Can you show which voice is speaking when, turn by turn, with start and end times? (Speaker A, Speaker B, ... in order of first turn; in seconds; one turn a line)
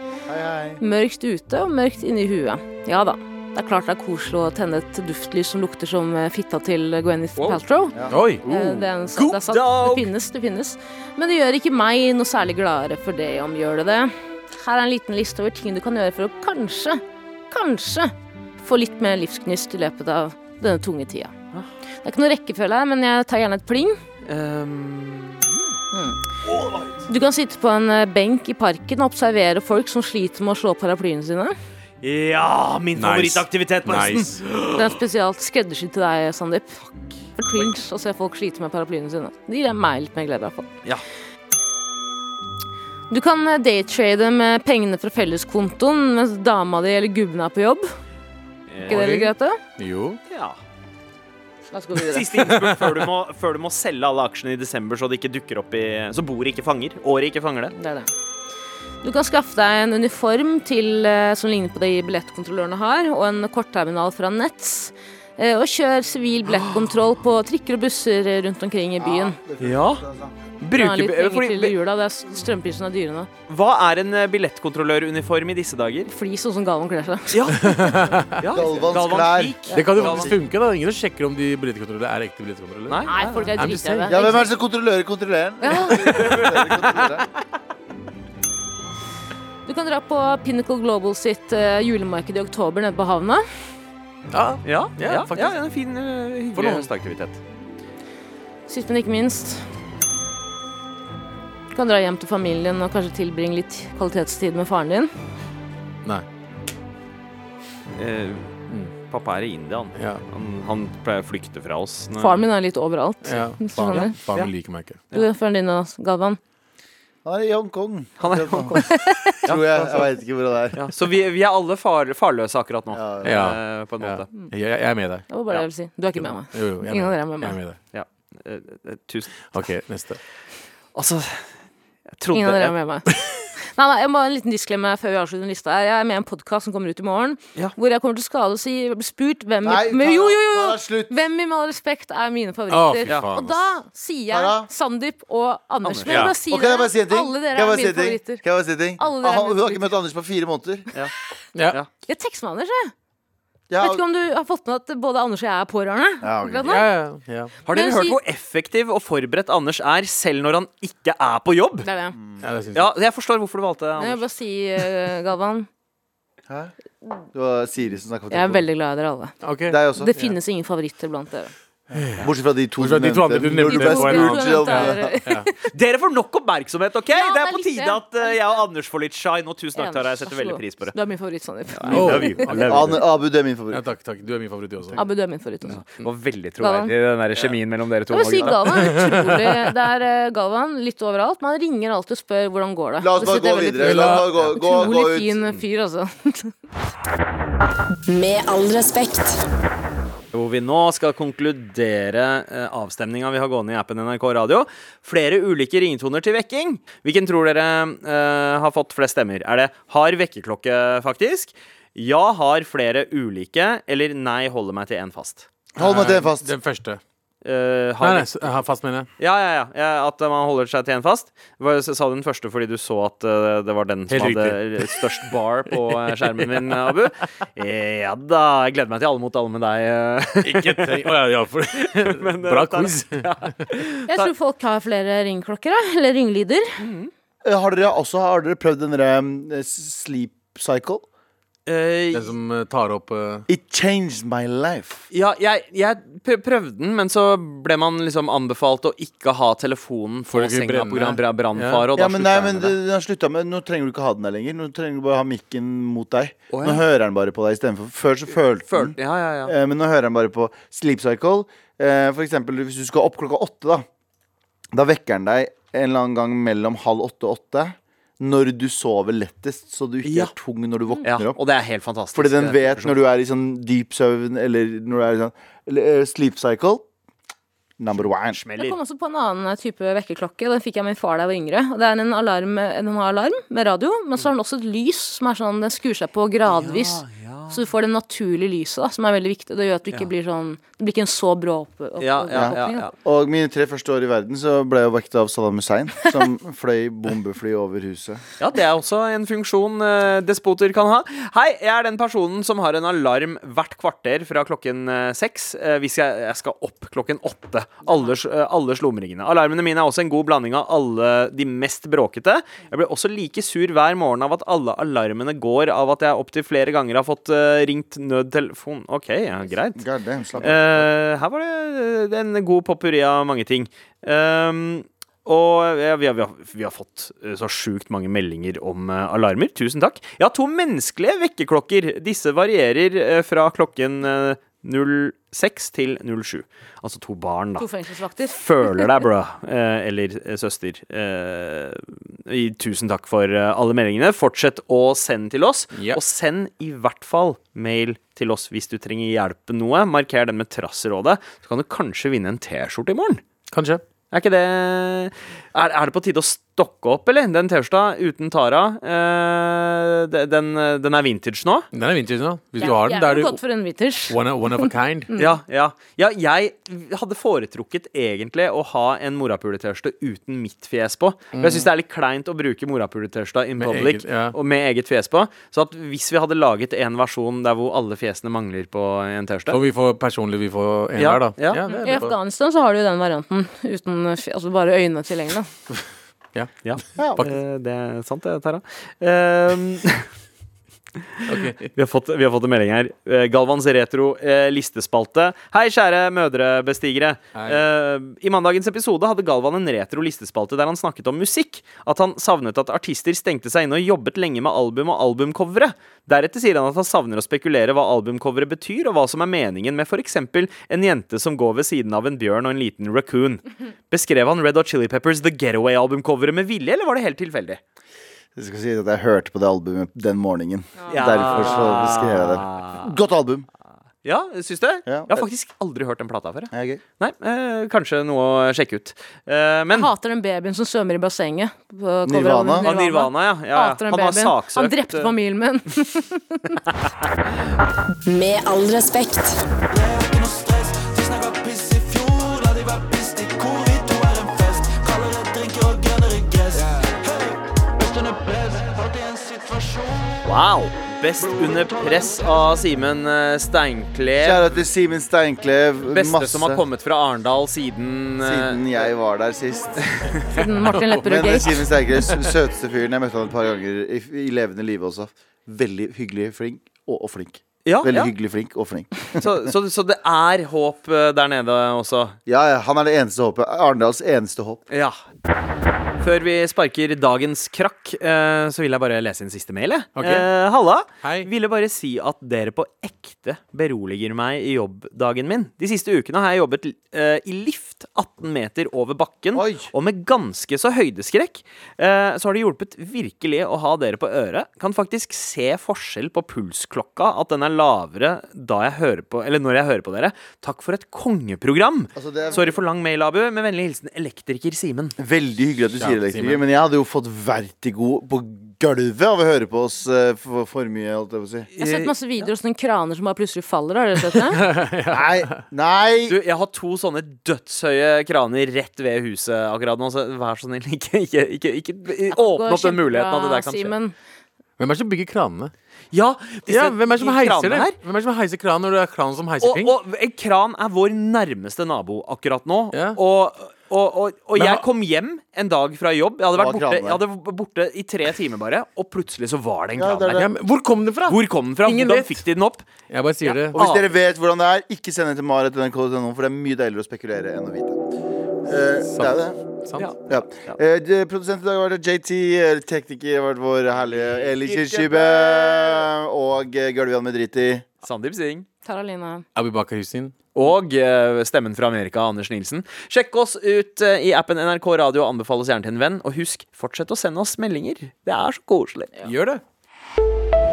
Speaker A: 0.3-0.8
Speaker B: 0.8-21.3
Speaker C: 8.1-8.8
Speaker D: 9.2-10.1
Speaker B: 22.0-24.0
Speaker D: 24.2-25.7
Speaker B: 25.9-26.2
Speaker D: 26.5-26.9
Speaker B: 27.1-31.6
Speaker D: 32.0-35.0
Speaker C: 33.0-34.4
Speaker B: 34.7-36.8
Speaker B: 37.4-40.7
Speaker B: 43.1-47.9
Speaker D: 48.7-49.2
Speaker C: 48.9-50.2
Speaker B: 48.9-49.6
Speaker D: 50.3-50.6
Speaker B: 51.7-52.3
Speaker D: 52.1-57.7
Speaker C: 52.4-53.0
Speaker B: 57.8-58.1
Speaker B: 59.0-69.4
Speaker D: 66.5-66.9
Speaker A: 69.0-70.4
Speaker D: 69.6-70.0
Speaker D: 70.6-71.7
Speaker B: 70.7-73.3
Speaker D: 73.5-76.1
Speaker B: 76.1-77.6
Speaker D: 77.3-80.3
Speaker C: 77.6-78.4
Speaker A: 78.5-80.4
Speaker C: 79.7-83.0
Speaker D: 82.9-83.7
Speaker B: 83.1-84.5
Speaker C: 83.6-84.1
Speaker A: 84.1-87.3
Speaker B: 85.6-86.1
Speaker D: 85.9-86.8
Speaker B: 89.7-93.7
Speaker C: 94.3-95.5
Speaker D: 94.7-97.4
Speaker C: 96.5-96.9
Speaker B: 98.7-99.7
Speaker B: 101.7-105.1
Speaker D: 108.0-108.5
Speaker D: 109.1-112.4
Speaker C: 110.0-110.2
Speaker B: 112.2-114.1
Speaker C: 113.2-115.0
Speaker D: 113.9-114.5
Speaker B: 115.1-116.4
Speaker A: 117.2-120.9
Speaker D: 118.2-120.1
Speaker B: 118.7-119.4
Speaker D: 120.7-124.3
Speaker A: 122.9-123.6
Speaker C: 123.2-125.2
Speaker B: 125.3-127.6
Speaker C: 126.2-127.8
Speaker D: 127.9-129.6
Speaker C: 129.5-130.2
Speaker D: 130.9-131.5
Speaker D: 132.2-132.7
Speaker B: 132.3-133.1
Speaker B: 133.7-148.4
Speaker A: 139.6-141.1
Speaker C: 142.7-143.6
Speaker A: 144.3-144.7
Speaker D: 145.8-146.3
Speaker C: 146.1-146.3
Speaker A: 146.2-150.9
Speaker B: 149.0-149.9
Speaker C: 151.6-151.8
Speaker B: 152.1-152.9
Speaker A: 153.7-154.0
Speaker B: 153.8-156.9
Speaker A: 156.2-156.7
Speaker C: 156.7-157.5
Speaker D: 157.7-161.9
Speaker B: 157.7-158.2
Speaker B: 161.8-162.2
Speaker A: 162.2-162.4
Speaker C: 162.4-162.9
Speaker D: 162.7-164.2
Speaker B: 164.0-165.7
Speaker A: 166.5-166.7
Speaker A: 167.3-168.7
Speaker B: 168.3-169.3
Speaker C: 169.4-170.3
Speaker A: 169.7-170.1
Speaker B: 169.9-171.5
Speaker A: 171.9-175.1
Speaker C: 171.9-175.5
Speaker B: 173.7-175.6
Speaker D: 175.7-180.9
Speaker B: 177.1-178.7
Speaker B: 179.8-182.3
Speaker D: 181.8-183.0
Speaker C: 181.9-183.0
Speaker A: 182.7-183.8
Speaker C: 183.7-185.0
Speaker B: 184.9-185.8
Speaker D: 186.0-189.0
Speaker B: 186.6-186.9
Speaker B: 188.1-196.5
Speaker C: 188.6-189.4
Speaker A: 193.0-195.4
Speaker C: 193.8-194.8
Speaker E: 198.1-199.4
Speaker D: 200.3-215.5
Speaker A: 215.8-216.5
Speaker C: 215.8-217.0
Speaker D: 217.4-218.6
Speaker C: 218.0-219.1
Speaker D: 219.2-231.1
Speaker C: 224.1-225.3
Speaker C: 230.4-233.3
Speaker D: 231.9-234.3
Speaker B: 234.1-236.7
Speaker D: 236.8-237.1
Speaker A: 237.4-241.1
Speaker D: 241.7-242.3
Speaker C: 242.1-243.5
Speaker A: 243.5-245.1
Speaker D: 245.1-252.8
Speaker C: 250.3-251.9
Speaker A: 251.9-263.9
Speaker D: 256.5-256.9
Speaker D: 258.7-259.5
Speaker A: 264.7-271.4
Speaker D: 270.1-270.3
Speaker D: 271.0-272.9
Speaker A: 272.1-276.9
Speaker A: 277.8-278.4
Speaker D: 278.0-278.8
Speaker B: 278.6-292.9
Speaker D: 286.5-287.6
Speaker D: 292.0-292.9
Speaker A: 292.4-298.2
Speaker D: 298.4-319.8
Speaker B: 307.9-308.1
Speaker A: 319.8-320.9
Speaker D: 320.4-337.7
Speaker B: 337.6-338.9
Speaker D: 338.2-353.2
Speaker C: 353.5-353.8
Speaker D: 354.1-361.7
Speaker C: 361.7-363.4
Speaker B: 362.6-364.2
Speaker C: 364.1-365.1
Speaker D: 365.2-379.6
Speaker C: 371.4-371.7
Speaker C: 373.6-374.4
Speaker C: 379.5-382.2
Speaker D: 381.0-381.7
Speaker B: 381.7-385.5
Speaker C: 386.3-386.6
Speaker D: 386.6-390.1
Speaker C: 391.3-391.7
Speaker D: 391.8-417.6
Speaker C: 397.4-397.6
Speaker A: 418.4-423.5
Speaker B: 420.8-421.4
Speaker D: 420.9-422.9
Speaker D: 424.0-429.9
Speaker A: 424.9-425.3
Speaker A: 426.5-426.8
Speaker B: 429.7-436.6
Speaker A: 432.1-432.7
Speaker D: 432.6-435.1
Speaker E: 438.1-439.4
Speaker D: 450.2-454.4
Speaker A: 454.2-456.6
Speaker D: 455.9-458.7
Speaker A: 458.2-460.0
Speaker B: 460.3-461.7
Speaker C: 460.4-462.3
Speaker A: 461.0-469.3
Speaker D: 467.7-468.1
Speaker D: 469.1-472.2
Speaker A: 472.3-474.6
Speaker D: 474.7-475.0
Speaker D: 476.0-505.0
Speaker C: 480.0-480.3
Speaker C: 481.0-481.3
Speaker A: 489.3-489.7
Speaker A: 502.0-502.6
Speaker A: 505.0-511.5
Speaker C: 505.8-506.4
Speaker D: 511.6-511.9
Speaker B: 511.6-514.4
Speaker C: 514.4-515.4
Speaker A: 514.9-516.2
Speaker D: 516.1-523.7
Speaker B: 522.1-523.9
Speaker C: 524.6-525.5
Speaker D: 525.9-527.8
Speaker C: 526.5-529.7
Speaker D: 529.4-540.3
Speaker C: 532.7-533.0
Speaker C: 534.4-534.6
Speaker A: 536.4-537.0
Speaker A: 539.8-540.3
Speaker C: 540.1-542.2
Speaker D: 541.1-542.7
Speaker C: 542.9-543.6
Speaker D: 543.2-543.9
Speaker A: 543.5-547.9
Speaker A: 548.4-549.4
Speaker C: 549.0-549.9
Speaker D: 549.8-550.6
Speaker A: 550.1-557.6
Speaker D: 553.9-555.7
Speaker D: 557.8-558.5
Speaker B: 558.6-559.2
Speaker C: 559.4-560.1
Speaker D: 560.4-569.0
Speaker C: 569.0-569.4